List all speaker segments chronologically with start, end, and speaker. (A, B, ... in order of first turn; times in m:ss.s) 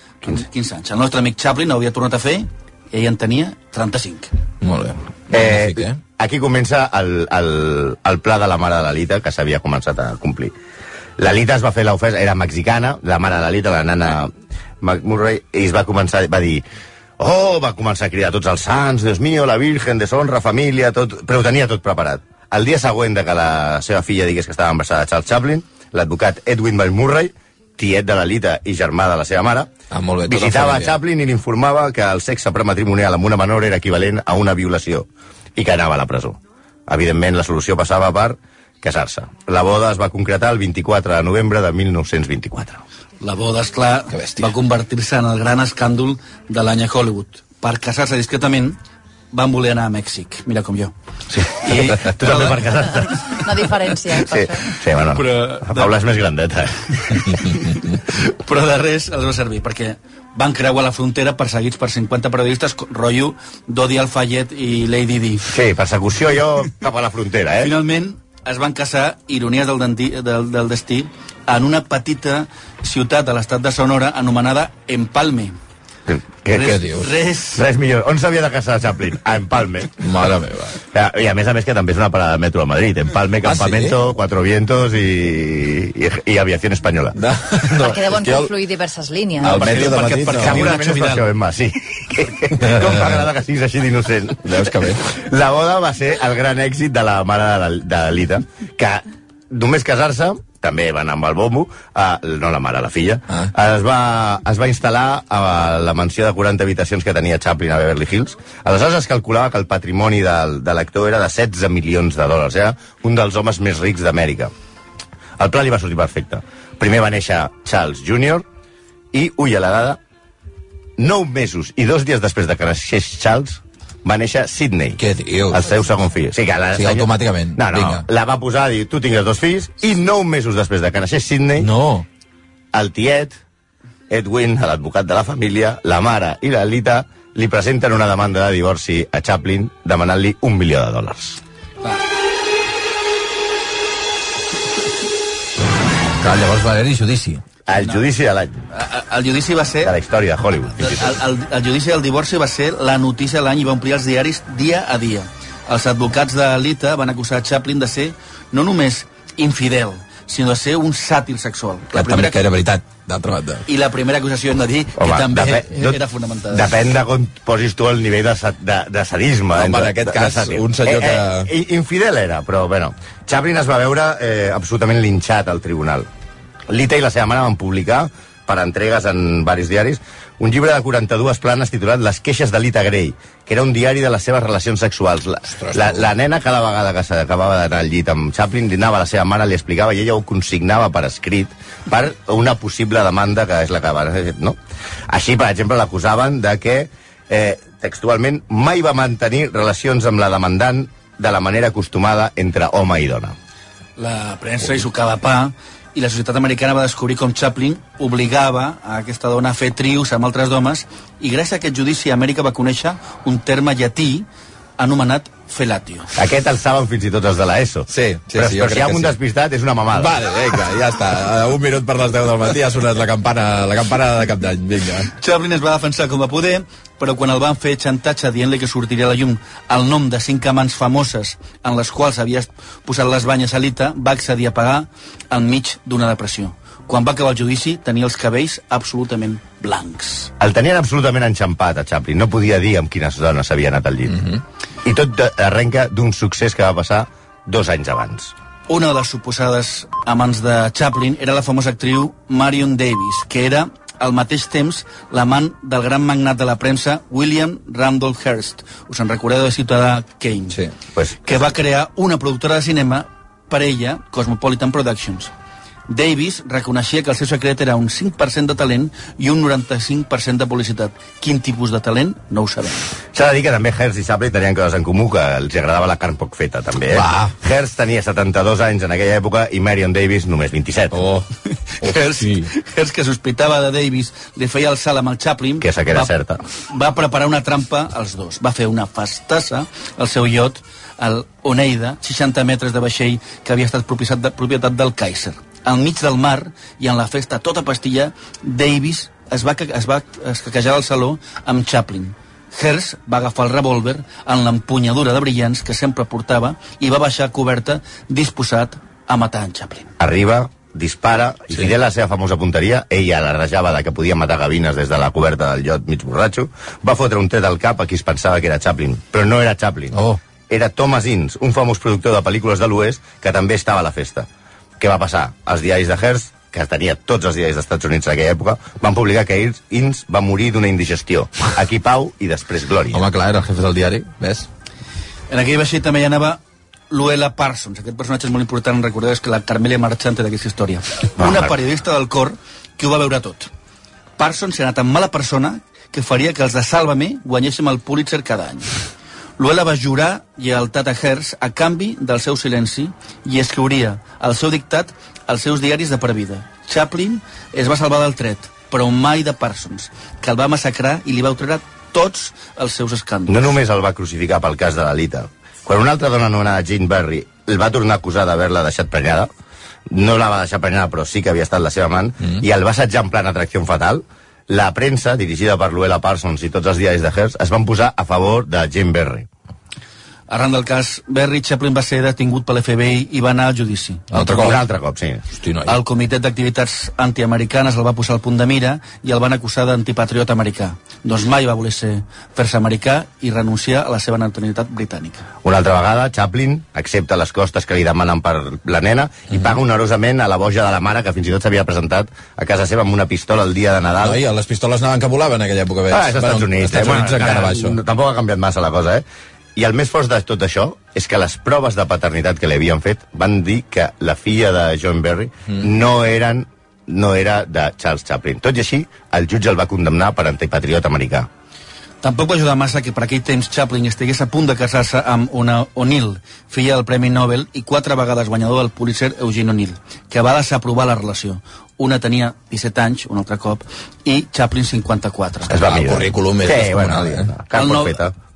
0:00.2-0:04.3 A
0:04.6-0:06.0 B
0:05.3-0:10.5 C
0:11.2-0:14.3 C
0:14.8-0:16.6 C
0:17.2-0:29.7 C
0:29.9-0:30.9 B
0:30.2-0:42.8 C
0:43.2-0:48.8 A
0:44.1-0:44.5 B
0:49.3-0:50.9 A
0:51.5-0:52.6 A
0:51.7-0:53.5 C
0:53.4-0:54.6 D
0:54.2-0:56.9 C
0:55.1-0:55.9 A
0:57.1-1:05.5 A
1:05.5-1:07.7 C
1:07.6-1:15.5 A
1:16.1-1:16.8 C
1:16.5-1:17.6 A
1:16.6-1:17.1 B
1:17.5-1:20.0 C
1:20.0-1:20.8 B
1:20.9-1:27.2 C
1:23.4-1:24.0 B
1:27.2-1:28.5 B
1:27.9-1:29.6 D
1:29.4-1:30.7 B
1:29.5-1:54.5 C
1:29.5-1:31.2 A
1:32.6-1:33.0 B
1:34.4-1:35.0 B
1:55.4-1:58.4 C
1:59.1-2:00.0 C
2:01.0-2:05.0 C
2:05.0-2:05.6 B
2:05.5-2:11.7 C
2:06.7-2:08.0 B
2:11.6-2:12.0 B
2:12.7-2:13.4 C
2:14.1-2:21.4 C
2:26.2-2:27.4 B
2:27.7-2:28.6 C
2:28.7-2:29.9 A
2:29.8-2:31.2 C
2:30.8-2:42.5 A
2:41.9-2:43.6 B
2:43.6-2:46.7 A
2:45.0-2:46.0 C
2:46.5-2:56.1 C
2:49.5-2:51.5 B
2:56.7-3:14.6 C
3:05.5-3:06.1 B
3:15.1-3:23.3 C
3:24.0-3:34.2 A
3:34.8-3:36.1 A
3:36.1-3:40.2 C
3:37.9-3:39.1 B
3:39.9-3:45.1 B
3:45.1-4:00.3 A
4:00.4-4:04.2 C
4:04.8-4:08.3 C
4:08.7-4:20.6 A
4:20.9-4:21.5 C
4:21.2-4:25.3 A
4:25.9-4:32.9 A
4:33.1-4:41.0 C
4:36.9-4:37.3 B
4:40.9-4:41.3 B
4:41.8-5:09.9 A
4:41.8-4:42.5 B
4:45.6-4:46.4 C
5:10.0-5:24.3 C
5:24.8-5:33.0 C
5:32.9-5:34.5 B
5:35.3-5:43.5 A
5:41.2-5:41.5 C
5:44.2-5:48.7 A
5:49.4-6:03.5 A
6:03.3-6:09.3 C
6:09.9-6:19.3 C
6:20.3-6:24.2 A
6:24.1-6:24.6 B
6:24.2-6:25.2 C
6:25.3-6:25.8 B
6:25.6-6:35.2 A
6:35.4-6:44.2 C
6:44.0-6:47.8 B
6:45.9-6:49.0 C
6:49.6-7:01.3 C
7:02.0-7:15.5 A
7:15.5-7:18.1 C
7:15.6-7:17.3 B
7:17.5-7:18.0 A